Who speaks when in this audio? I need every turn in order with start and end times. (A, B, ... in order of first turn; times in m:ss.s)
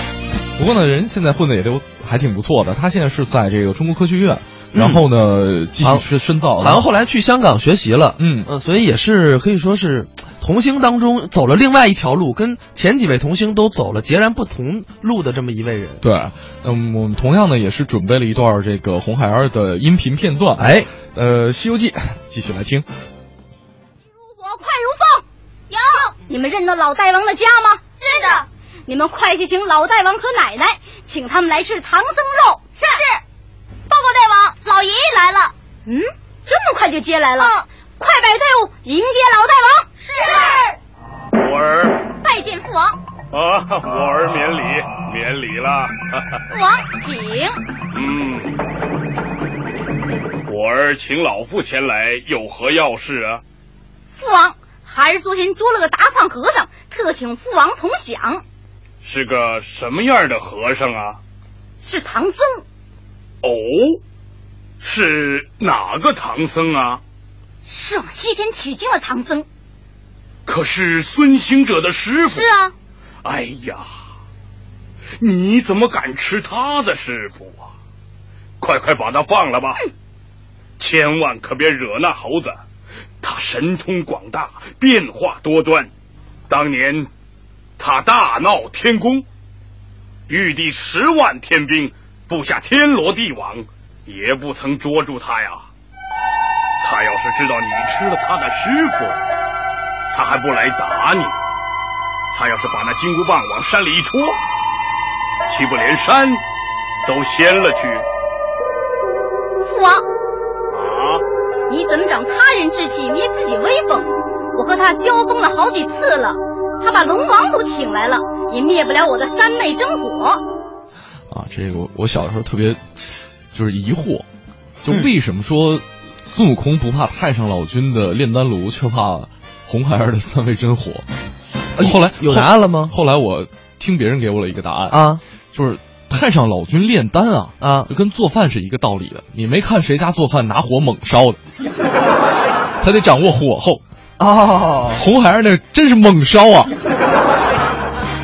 0:00.6-0:06.8 A
0:04.7-0:05.0 B
0:06.6-0:16.0 B
0:08.2-0:08.5 A
0:16.0-0:22.9 A
0:20.6-0:20.9 B
0:24.2-0:25.2 C
0:26.3-0:27.8 C
0:28.9-0:33.0 C
0:35.9-0:39.9 C
0:41.3-0:42.0 D
0:42.2-0:43.0 C
0:43.3-0:46.2 D
0:46.5-0:47.6 C
0:47.9-0:48.6 D
0:50.5-0:53.4 D
0:54.2-0:58.4 C
0:59.0-1:01.2 D
1:01.8-1:02.6 C
1:03.4-1:04.0 D
1:04.8-1:07.0 D
1:07.7-1:09.4 C
1:10.5-1:12.5 D
1:12.2-1:12.7 C
1:13.2-1:13.9 D
1:15.2-1:17.7 D
1:18.6-1:19.8 D
1:20.8-1:22.6 D
1:23.2-1:25.9 D
1:26.5-1:27.1 D
1:27.8-1:29.2 D
1:30.3-1:35.7 D
1:36.8-1:39.2 D
1:40.1-1:41.4 D
1:42.3-1:44.4 D
1:45.5-1:46.4 D
1:47.0-1:48.0 D
1:49.7-1:50.0 C
1:50.7-1:51.2 D
1:51.7-2:00.4 C
2:01.3-2:04.3 A
2:04.8-2:11.0 A
2:11.8-2:12.9 B
2:11.8-2:15.0 A
2:14.9-2:15.2 B
2:15.5-2:21.4 A
2:17.6-2:17.9 B
2:22.8-2:23.8 A
2:24.2-2:25.0 B
2:25.0-2:26.7 A